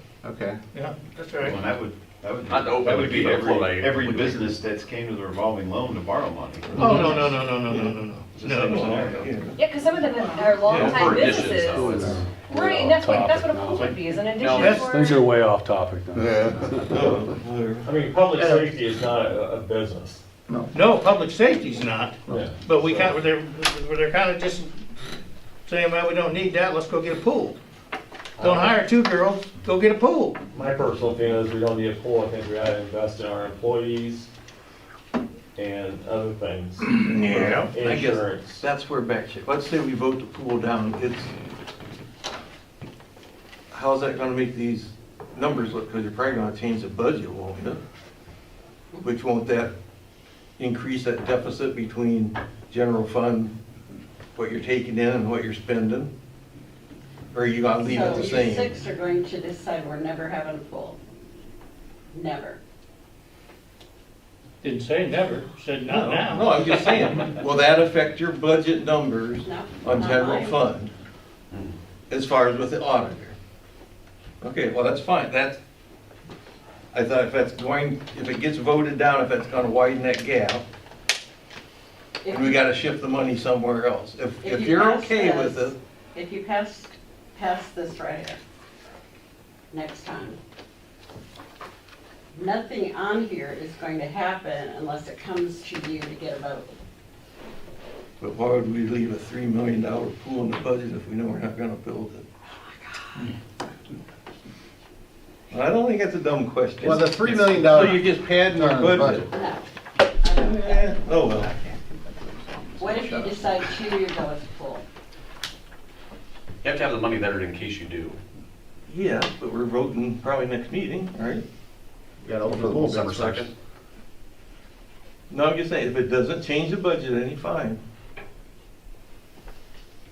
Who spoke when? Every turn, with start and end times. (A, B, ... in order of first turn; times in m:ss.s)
0:00.2-0:00.6 A
0:00.7-0:01.6 B
0:01.4-0:06.8 C
0:02.5-0:04.6 D
0:06.7-0:08.0 E
0:06.8-0:08.9 B
0:08.4-0:09.2 C
0:08.5-0:09.6 E
0:09.6-0:15.2 F
0:10.6-0:11.1 E
0:10.8-0:12.2 D
0:12.8-0:13.6 G
0:14.4-0:14.8 D
0:14.6-0:15.0 B
0:14.9-0:16.6 G
0:16.9-0:17.9 E
0:17.8-0:20.2 H
0:18.4-0:18.6 A
0:20.7-0:24.7 B
0:22.3-0:23.2 H
0:25.7-0:27.6 B
0:28.4-0:28.8 H
0:28.4-0:30.5 B
0:30.5-0:34.3 H
0:35.6-0:38.6 H
0:36.9-0:41.3 E
0:37.4-0:37.7 B
0:43.7-0:47.8 E
0:49.0-0:49.7 E
0:50.6-0:53.5 E
0:54.4-0:56.1 E
0:57.3-0:58.8 E
0:57.8-1:01.0 I
1:02.1-1:02.6 I
1:04.6-1:06.9 B
1:05.9-1:10.9 E
1:09.4-1:10.6 I
1:12.1-1:13.4 E
1:14.4-1:15.6 E
1:16.9-1:20.6 E
1:22.2-1:22.6 I
1:22.3-1:25.8 E
1:24.4-1:28.4 I
1:29.7-1:30.4 I
1:32.3-1:36.7 I
1:38.2-1:42.3 E
1:42.5-1:43.3 I
1:45.5-1:49.3 E
1:46.8-1:49.2 A
1:49.3-1:49.7 I
1:50.2-1:51.2 I
1:50.4-1:51.5 E
1:51.4-1:53.4 A
1:52.8-1:54.8 I
1:56.6-1:58.2 D
1:58.9-2:01.4 E
2:02.2-2:03.5 A
2:02.5-2:03.5 D
2:05.3-2:07.8 E